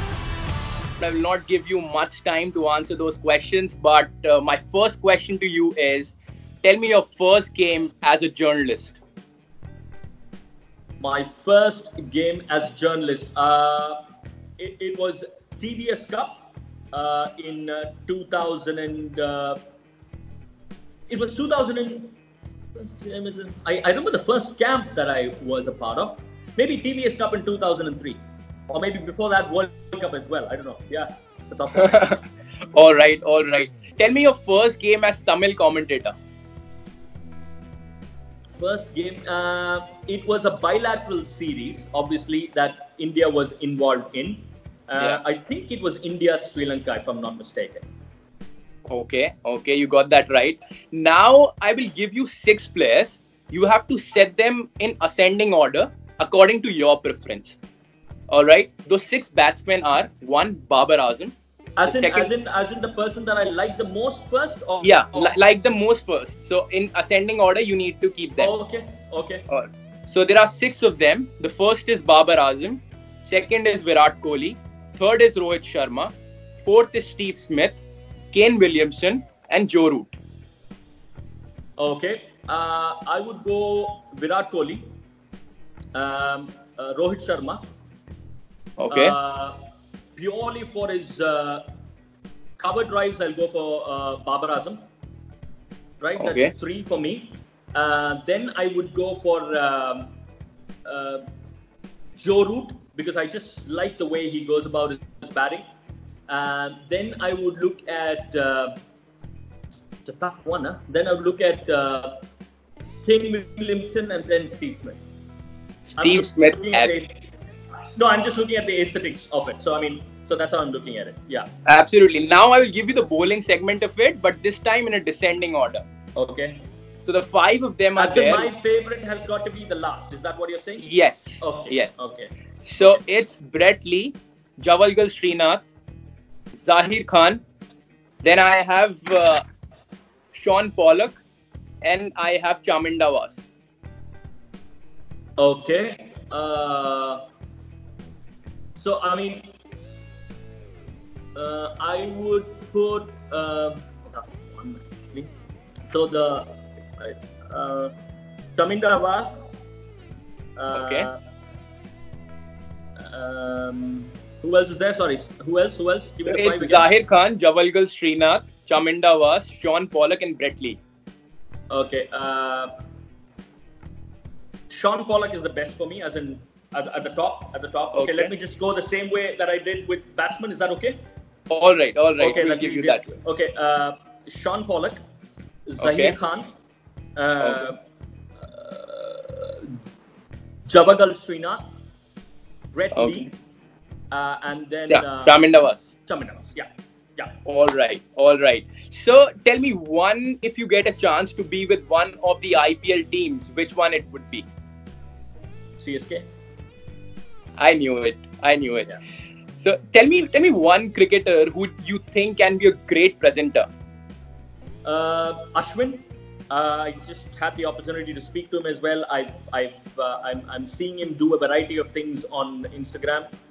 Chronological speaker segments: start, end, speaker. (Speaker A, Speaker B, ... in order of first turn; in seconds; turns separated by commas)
Speaker A: 1.0-9.0, Speaker B: 11.0-14.0, Speaker B: 14.6-19.6, Speaker B: 21.1-22.2, Speaker B: 22.8-31.9, Speaker A: 31.8-36.2, Speaker B: 38.5-47.8, Speaker A: 48.9-57.6, Speaker A: 58.3-61.4, Speaker B: 61.8-65.3, Speaker A: 61.9-62.4, Speaker A: 64.8-68.5, Speaker B: 68.4-69.5, Speaker A: 69.5-80.2, Speaker B: 81.8-84.8, Speaker B: 86.0-87.6, Speaker A: 88.8-89.1, Speaker B: 88.9-89.6, Speaker B: 90.2-91.6, Speaker B: 92.6-94.8, Speaker B: 96.0-100.1, Speaker A: 96.2-96.5, Speaker B: 100.9-101.2, Speaker B: 102.2-105.6, Speaker B: 106.3-108.8, Speaker B: 110.0-112.2, Speaker B: 113.0-115.0, Speaker A: 115.9-116.9, Speaker B: 116.0-117.1, Speaker B: 118.0-121.5, Speaker A: 121.7-125.8, Speaker B: 126.2-126.6, Speaker A: 127.1-128.5, Speaker B: 128.0-130.8, Speaker A: 130.8-132.0, Speaker B: 131.4-133.0, Speaker A: 132.7-135.7, Speaker A: 136.5-137.4, Speaker A: 138.2-139.4, Speaker A: 140.3-141.2, Speaker A: 141.8-143.5, Speaker B: 145.4-147.2, Speaker B: 148.8-149.5, Speaker B: 151.3-155.3, Speaker B: 155.9-157.9, Speaker B: 158.6-159.3, Speaker B: 160.6-161.2, Speaker A: 160.8-161.1, Speaker B: 163.0-166.9, Speaker A: 166.2-170.8, Speaker B: 171.7-172.7, Speaker B: 174.7-181.0, Speaker A: 177.9-178.3, Speaker A: 181.5-183.1, Speaker B: 182.2-185.0, Speaker B: 185.7-186.5, Speaker A: 185.8-186.2, Speaker B: 187.2-187.8, Speaker A: 187.4-187.7, Speaker B: 188.4-189.8, Speaker B: 190.7-191.7, Speaker B: 192.7-193.3, Speaker A: 192.9-193.3, Speaker B: 194.1-195.4, Speaker A: 194.9-195.9, Speaker B: 196.1-197.3, Speaker A: 197.5-204.5, Speaker B: 205.8-206.3, Speaker A: 207.6-208.9, Speaker A: 209.6-213.7, Speaker B: 214.8-223.3